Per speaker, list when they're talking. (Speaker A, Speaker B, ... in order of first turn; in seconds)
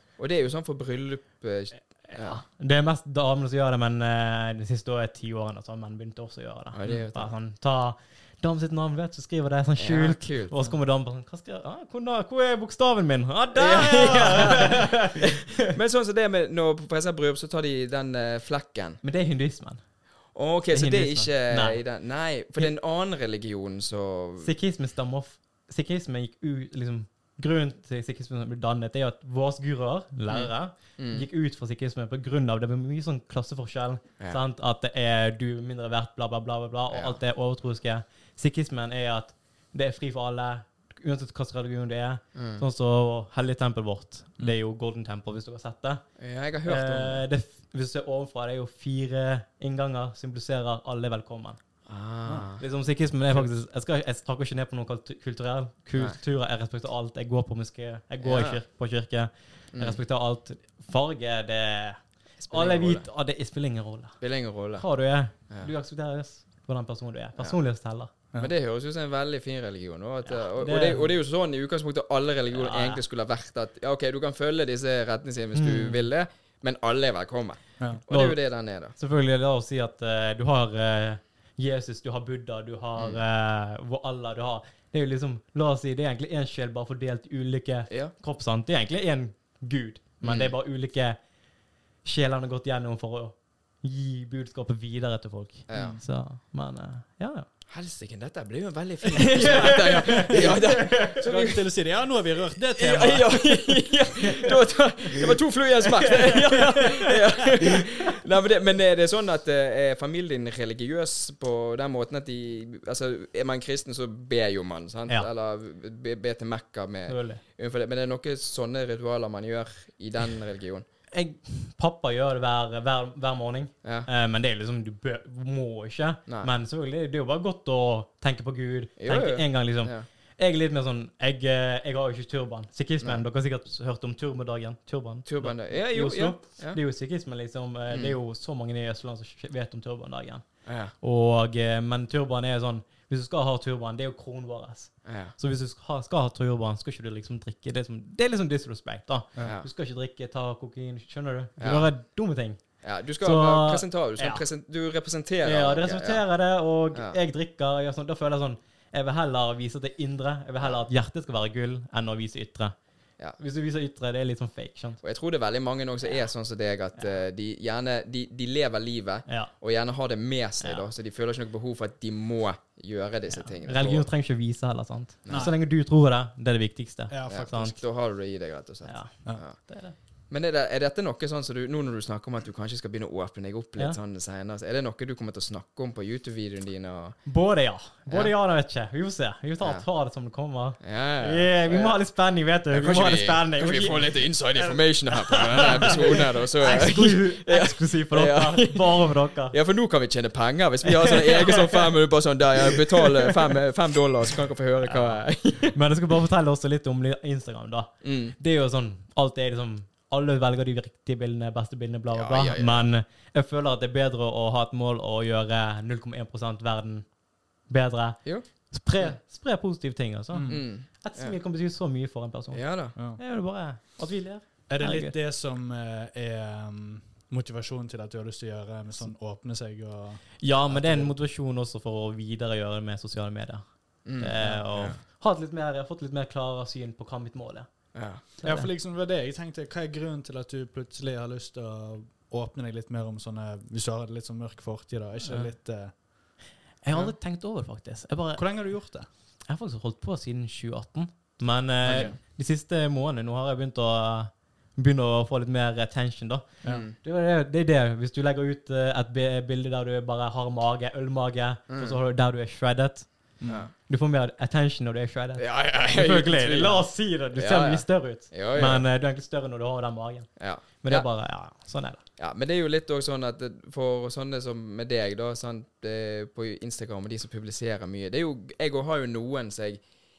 Speaker A: 0.2-2.4, 6.7-7.3, 9.8-10.8, 13.6-19.0, 20.4-24.5, 30.3-31.2, 36.9-37.2, 42.3-42.6, 46.2-47.3, 51.9-52.6, 58.2-58.6, 62.4-63.1, 64.2-64.8, 68.4-78.9, 90.2-90.5, 95.7-96.0, 97.7-101.7, 102.8-120.8, 129.0-130.1, 135.3-136.8, 137.9-138.2, 140.7-140.9, 145.1-145.3, 149.4-149.7, 151.6-151.9, 152.8-156.2, 165.0-174.1, 175.3-175.5, 177.3-179.6, 180.3-187.2, 190.8-192.0, 192.7-205.8, 208.0-208.3, 212.1-212.9, 220.4-221.3, 222.5-222.9, 234.1-235.0, 237.9-238.2, 256.6-256.9, 261.7-262.0, 263.5-263.7, 265.4-268.8, 270.4-271.1, 272.2-279.8
Speaker B: 2.1-15.7, 19.0-19.8, 20.7-21.8, 24.4-46.0, 46.6-51.6, 52.6-64.2, 64.8-68.1, 70.3-71.1, 72.5-73.0, 75.5-76.1, 78.1-78.4, 78.9-91.2, 92.0-97.5, 99.1-101.2, 106.2-107.1, 117.1-117.4, 121.1-140.4, 141.0-152.6, 153.2-154.4, 155.4-162.8, 163.4-165.0, 173.3-177.8, 178.8-179.9, 187.3-199.6, 200.8-201.9, 202.7-203.1, 204.8-217.1, 217.7-225.2, 230.4-237.7, 238.4-238.7, 245.2-245.5, 246.8-248.7, 249.5-263.3, 263.9-270.3, 270.8-272.0
Speaker C: 99.5-103.6, 175.3-175.6, 177.1-177.6, 220.3-220.6, 224.7-231.2, 238.4-246.0, 248.3-249.1, 251.8-252.2, 263.4-263.7